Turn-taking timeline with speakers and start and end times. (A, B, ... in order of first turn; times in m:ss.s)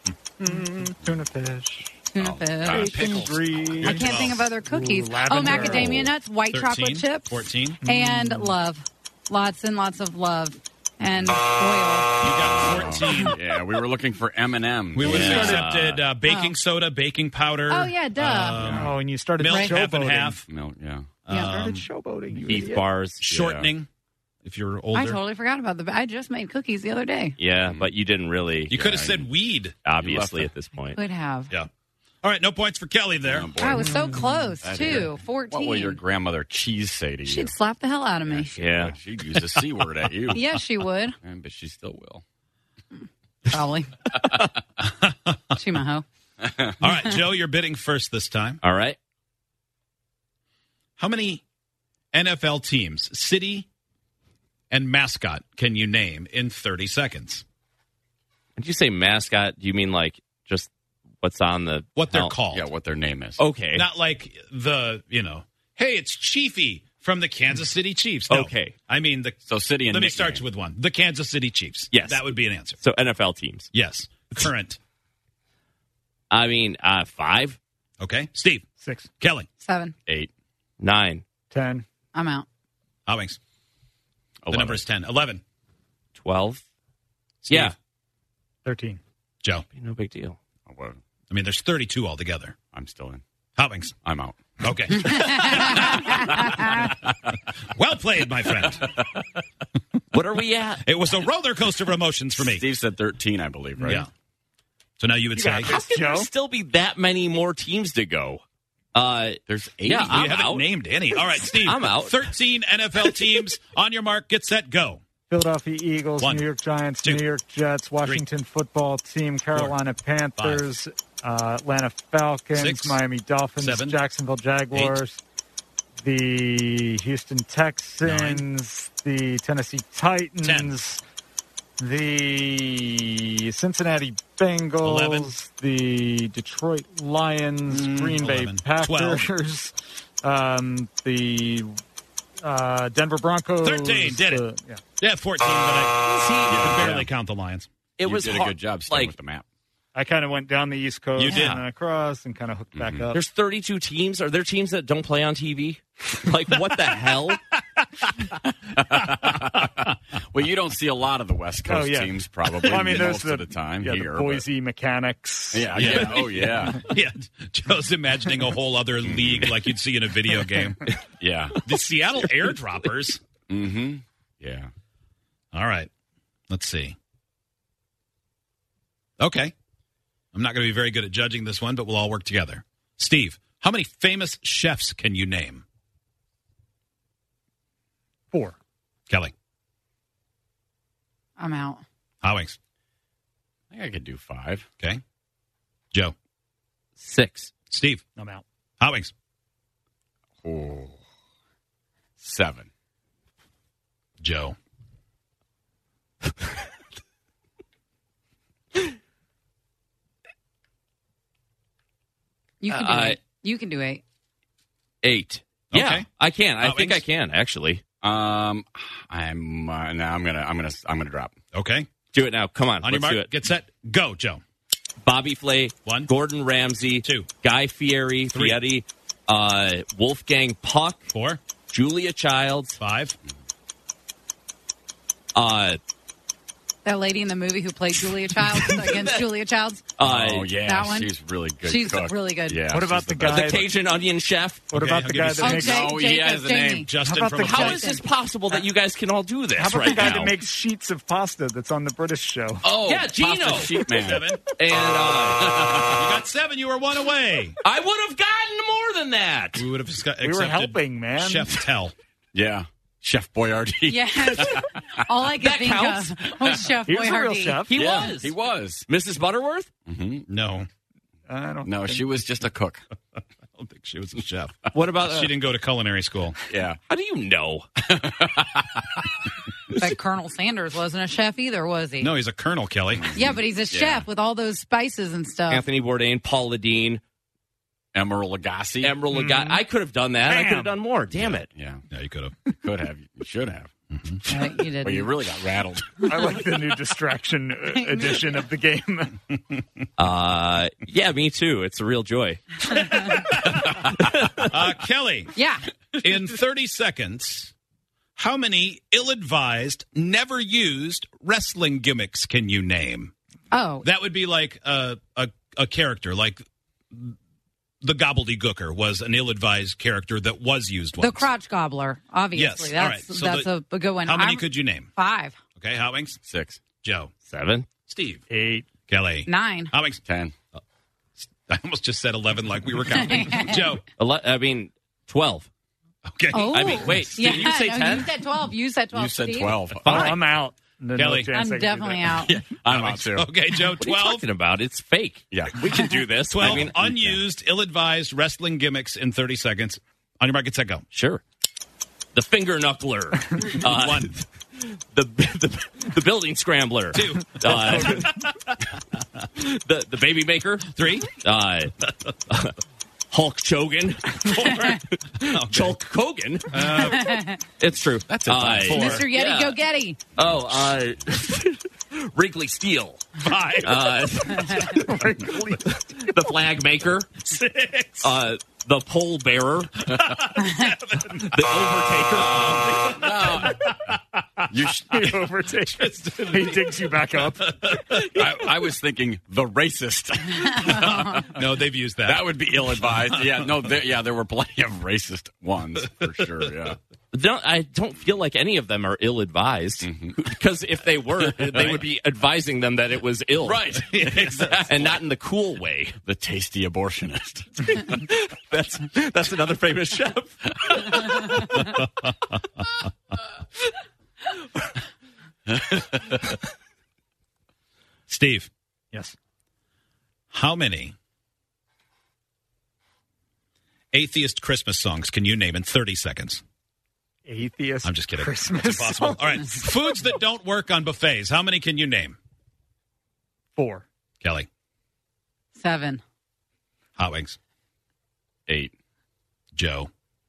0:00.4-0:01.9 A
0:02.1-0:03.3 B
0:02.2-0:03.8 C
0:02.9-0:06.0 A
0:03.8-0:13.4 B
0:03.8-0:04.4 D
0:05.6-0:06.1 E
0:06.5-0:07.8 D
0:07.8-0:08.5 A
0:12.2-0:13.4 D
0:12.4-0:15.7 C
0:14.9-0:20.5 D
0:15.0-0:16.1 E
0:16.2-0:16.5 B
0:17.7-0:18.6 B
0:18.6-0:18.9 C
0:18.7-0:20.4 A
0:19.5-0:19.8 B
0:20.4-0:21.2 C
0:21.2-0:21.8 D
0:21.3-0:22.9 A
0:22.4-0:23.2 E
0:23.2-0:23.9 D
0:23.2-0:23.7 C
0:24.4-0:25.2 D
0:24.9-0:27.4 B
0:27.4-0:29.2 E
0:27.5-0:27.9 C
0:28.7-0:29.8 D
0:29.8-0:30.5 C
0:29.8-0:31.0 E
0:30.9-0:31.5 B
0:32.2-0:33.6 D
0:33.2-0:34.0 C
0:33.6-0:36.0 B
0:34.6-0:37.5 C
0:37.2-0:38.5 B
0:38.3-0:40.6 C
0:38.5-0:38.9 E
0:40.3-0:41.2 B
0:41.2-0:42.2 C
0:43.5-0:44.1 B
0:44.8-0:45.6 D
0:45.5-0:46.0 B
0:46.4-0:46.8 C
0:46.8-0:48.6 D
0:48.6-0:49.0 E
0:51.0-0:51.4 D
0:52.1-0:53.7 D
0:54.7-0:57.4 D
0:58.6-1:00.7 E
1:01.2-1:02.4 E
1:02.0-1:02.7 D
1:02.4-1:03.4 C
1:03.4-1:03.8 E
1:03.7-1:09.4 D
1:08.3-1:08.7 E
1:09.5-1:10.4 C
1:09.9-1:12.8 D
1:11.9-1:13.7 E
1:13.7-1:14.8 D
1:16.3-1:17.6 E
1:18.0-1:18.7 D
1:18.8-1:19.1 A
1:19.2-1:19.5 D
1:19.6-1:19.9 B
1:20.8-1:21.2 E
1:21.5-1:21.8 A
1:22.1-1:22.5 B
1:23.1-1:23.4 D
1:24.4-1:24.8 C
1:24.5-1:25.4 D
1:26.2-1:26.6 E
1:27.4-1:27.7 D
1:27.5-1:27.7 E
1:28.6-1:29.0 A
1:29.7-1:30.4 E
1:30.7-1:31.0 C
1:31.3-1:32.6 D
1:32.7-1:33.2 C
1:33.6-1:33.9 D
1:34.0-1:37.0 C
1:34.6-1:36.7 D
1:36.3-1:36.6 B
1:37.7-1:38.9 D
1:38.6-1:39.2 C
1:40.1-1:40.8 E
1:40.8-1:42.6 D
1:42.3-1:44.0 C
1:43.8-1:44.0 A
1:43.8-1:44.1 D
1:45.0-1:45.7 D
1:45.3-1:46.3 A
1:45.7-1:48.4 E
1:48.9-1:50.7 E
1:49.5-1:50.4 C
1:50.1-1:55.0 D
1:51.5-1:52.3 E
1:55.3-2:05.2 A
1:56.2-1:56.4 D
1:59.5-1:59.8 D
2:00.4-2:00.7 D
2:02.5-2:03.0 D
2:03.6-2:04.0 D
2:04.7-2:05.0 D
2:06.0-2:11.0 A
2:08.0-2:08.4 D
2:10.4-2:10.7 D
2:11.8-2:21.7 A
2:14.8-2:15.3 D
2:17.7-2:19.3 D
2:22.4-2:24.8 A
2:23.6-2:24.4 D
2:25.0-2:27.7 D
2:26.0-2:26.6 E
2:26.5-2:27.1 C
2:28.0-2:29.1 E
2:28.0-2:29.4 C
2:29.9-2:33.2 A
2:31.2-2:31.6 E
2:31.3-2:31.6 D
2:32.7-2:33.1 C
2:33.1-2:37.4 E
2:36.5-2:38.3 D
2:38.8-2:39.7 C
2:39.1-2:39.8 D
2:40.3-2:44.4 C
2:41.6-2:46.7 A
2:45.5-2:46.8 C
2:45.7-2:50.8 D
2:45.9-2:46.5 E
2:49.0-2:49.6 C
2:51.1-2:51.6 C
2:51.6-2:53.2 D
2:52.1-2:52.9 E
2:53.5-2:54.7 C
2:55.5-2:55.9 D
2:56.5-2:57.0 D
2:59.2-2:59.5 D
3:00.3-3:05.6 D
3:08.3-3:08.6 A
3:09.1-3:09.3 D
3:11.4-3:11.8 B
3:12.2-3:12.6 D
3:13.7-3:14.6 C
3:17.0-3:17.5 E
3:17.7-3:18.0 D
3:18.2-3:18.4 A
3:18.8-3:19.1 D
3:20.4-3:21.0 C
3:22.2-3:22.7 C
3:24.2-3:24.6 D
3:32.6-3:34.0 B
3:32.7-3:33.2 E
3:35.0-3:37.8 E
3:35.7-3:36.1 D
3:36.6-3:37.0 D
3:38.0-3:41.4 C
3:41.5-3:41.9 D
3:42.1-3:43.3 E
3:42.8-3:44.4 D
3:45.0-3:51.1 E
3:45.8-3:46.1 D
3:47.0-3:47.3 D
3:48.3-3:48.6 D
3:51.1-3:51.4 D
3:51.7-3:52.8 E
3:52.8-3:53.2 D
3:55.3-3:55.8 E
3:56.8-4:00.0 B
3:58.8-3:59.2 E
4:00.0-4:00.5 E
4:00.0-4:03.5 C
4:00.5-4:01.1 B
4:01.6-4:02.7 B
4:02.7-4:03.7 A
4:03.2-4:04.7 E
4:04.7-4:05.9 A
4:04.7-4:05.9 D
4:05.4-4:06.9 B
4:05.4-4:06.9 C
4:06.8-4:07.8 D
4:07.0-4:08.6 A
4:07.4-4:10.3 E
4:07.6-4:08.0 B
4:09.6-4:12.7 A
4:12.6-4:14.4 C
4:12.8-4:13.8 E
4:13.8-4:14.4 D
4:14.5-4:15.6 E
4:14.9-4:16.1 C
4:15.8-4:17.6 D
4:17.6-4:19.6 E
4:19.6-4:21.9 D
4:20.2-4:21.6 A
4:22.3-4:25.0 C
4:23.8-4:28.1 B
4:25.3-4:26.3 E
4:26.8-4:27.8 A
4:27.6-4:28.3 E
4:27.7-4:28.9 C
4:28.8-4:29.7 E
4:29.9-4:30.3 C
4:30.3-4:30.7 D
4:31.3-4:32.1 A
4:31.6-4:32.8 C
4:33.2-4:36.4 D
4:34.7-4:35.4 E
4:36.5-4:36.8 C
4:36.9-4:37.7 E
4:37.8-4:39.0 C
4:39.8-4:42.1 B
4:42.0-4:43.1 D
4:42.9-4:44.0 C
4:43.1-4:45.7 B
4:45.5-4:47.0 E
4:47.9-4:49.0 C
4:48.8-4:51.5 E
4:49.1-4:49.6 A
4:50.2-4:50.8 A
4:51.4-4:51.8 C
4:51.9-4:52.4 D
4:52.6-4:53.7 C
4:53.9-4:54.2 D
4:54.2-4:55.2 B
4:54.3-4:56.0 C
4:56.0-4:59.2 A
4:57.7-4:58.4 B
5:00.0-5:02.6 E
5:02.7-5:03.7 D
5:03.9-5:04.4 E
5:04.4-5:05.3 D
5:05.3-5:05.6 B
5:06.0-5:07.5 D
5:08.2-5:13.1 D
5:13.5-5:13.9 B
5:13.8-5:17.2 D
5:17.8-5:21.3 D
5:21.0-5:25.4 B
5:22.3-5:23.5 D
5:24.0-5:24.9 D
5:25.6-5:26.2 D
5:26.2-5:26.6 C
5:26.8-5:27.1 D
5:27.2-5:27.7 E
5:27.8-5:28.2 D
5:28.3-5:28.7 A
5:28.9-5:30.0 D
5:29.2-5:29.7 B
5:30.0-5:30.3 C
5:31.2-5:33.8 D
5:32.9-5:33.8 B
5:33.9-5:35.5 E
5:36.0-5:37.0 D
5:36.3-5:39.8 B
5:36.5-5:38.1 E
5:38.9-5:40.1 C
5:39.8-5:40.3 D
5:39.9-5:42.2 A
5:40.9-5:41.3 D
5:41.3-5:42.4 B
5:42.2-5:43.3 C
5:42.6-5:44.3 D
5:43.7-5:47.2 E
5:45.3-5:45.6 C
5:46.2-5:46.7 C
5:46.3-5:50.8 D
5:50.9-5:51.2 E
5:52.1-5:58.2 E
5:53.5-5:54.2 D
5:56.9-5:58.6 D
5:59.4-6:02.6 E
6:00.6-6:01.1 D
6:03.1-6:06.6 E
6:04.2-6:05.8 D
6:06.5-6:07.2 D
6:06.6-6:07.4 B
6:07.5-6:09.6 E
6:08.1-6:09.1 C
6:08.6-6:10.1 B
6:10.1-6:13.0 E
6:13.2-6:14.7 D
6:13.6-6:14.9 E
6:14.4-6:14.8 B
6:14.7-6:15.6 A
6:15.6-6:17.2 E
6:17.2-6:18.2 D
6:18.0-6:19.7 E
6:19.8-6:24.5 D
6:21.2-6:22.8 E
6:22.8-6:23.6 C
6:24.5-6:25.2 C
6:24.8-6:27.8 A
6:25.7-6:28.2 D
6:27.9-6:31.3 C
6:30.5-6:33.5 D
6:32.0-6:36.8 C
6:37.1-6:43.7 E
6:39.8-6:40.2 C
6:41.3-6:41.7 C
6:41.4-6:41.8 D
6:43.4-6:45.0 C
6:43.9-6:44.8 D
6:44.6-6:46.0 E
6:46.0-6:48.0 C
6:48.1-6:50.9 E
6:50.7-6:51.6 C
6:55.5-6:56.1 C
6:58.1-6:58.5 D
7:00.3-7:00.9 D
7:03.9-7:06.4 D
7:07.2-7:09.6 A
7:07.8-7:12.2 D
7:13.6-7:13.8 A
7:14.2-7:14.5 D
7:15.6-7:16.0 B
7:17.0-7:17.4 D
7:18.5-7:18.7 C
7:19.5-7:19.9 D